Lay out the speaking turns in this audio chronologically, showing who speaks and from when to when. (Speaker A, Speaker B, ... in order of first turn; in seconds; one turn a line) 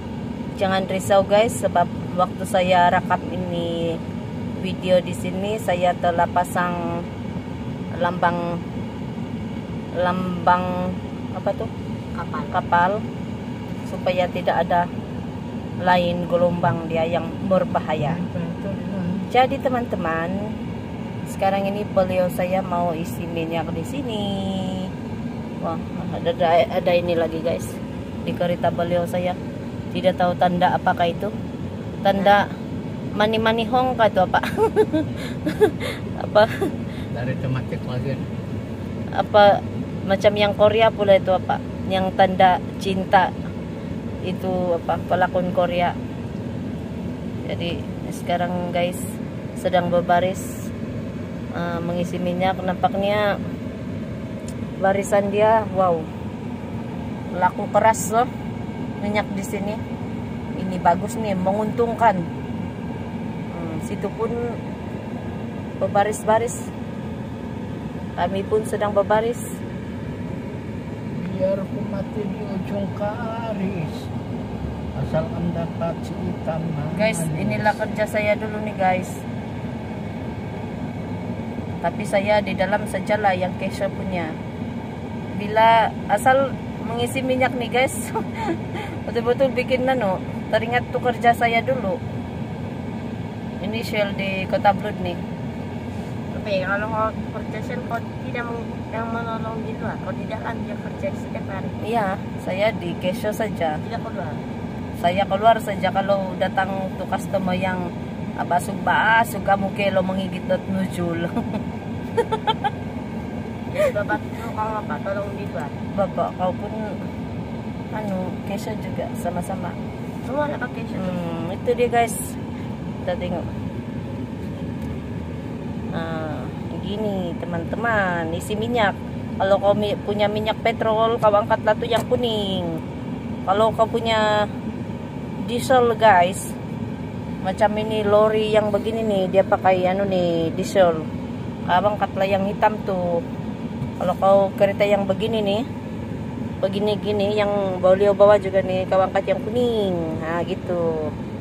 Speaker A: 0.6-4.0
Speaker A: 4.6-6.8
Speaker A: 8.0-8.6
Speaker A: 10.0-11.7
Speaker B: 12.1-12.6
Speaker A: 12.5-13.0
Speaker A: 13.9-14.9
Speaker A: 15.8-18.2
Speaker C: 18.0-19.3
Speaker A: 19.3-20.4
Speaker A: 21.3-24.9
Speaker A: 25.6-29.4
Speaker A: 29.9-31.3
Speaker A: 32.0-32.5
Speaker A: 33.2-36.5
Speaker C: 37.1-38.3
Speaker A: 39.2-43.3
Speaker A: 44.3-46.0
Speaker A: 47.5-49.0
Speaker A: 49.6-50.7
Speaker A: 51.5-53.3
Speaker A: 54.8-56.1
Speaker A: 57.3-58.3
Speaker A: 59.0-59.8
Speaker A: 60.5-62.2
Speaker A: 63.5-64.4
Speaker A: 65.8-66.7
Speaker A: 68.2-69.5
Speaker C: 71.2-74.1
Speaker C: 74.9-77.8
Speaker A: 76.9-79.2
Speaker A: 81.8-84.3
Speaker A: 85.3-92.0
Speaker A: 93.6-95.2
Speaker B: 96.3-101.8
Speaker A: 101.8-103.8
Speaker B: 103.8-104.4
Speaker A: 105.0-107.8
Speaker A: 108.4-111.6
Speaker A: 112.2-112.7
Speaker B: 113.7-115.8
Speaker A: 115.9-116.8
Speaker A: 117.9-119.8
Speaker B: 120.2-121.2
Speaker A: 121.0-122.4
Speaker A: 123.0-123.5
Speaker A: 125.9-132.8
Speaker A: 133.5-134.2
Speaker A: 135.4-136.5
Speaker A: 137.4-141.1
Speaker A: 141.7-143.2
Speaker A: 144.0-145.7
Speaker A: 146.6-151.1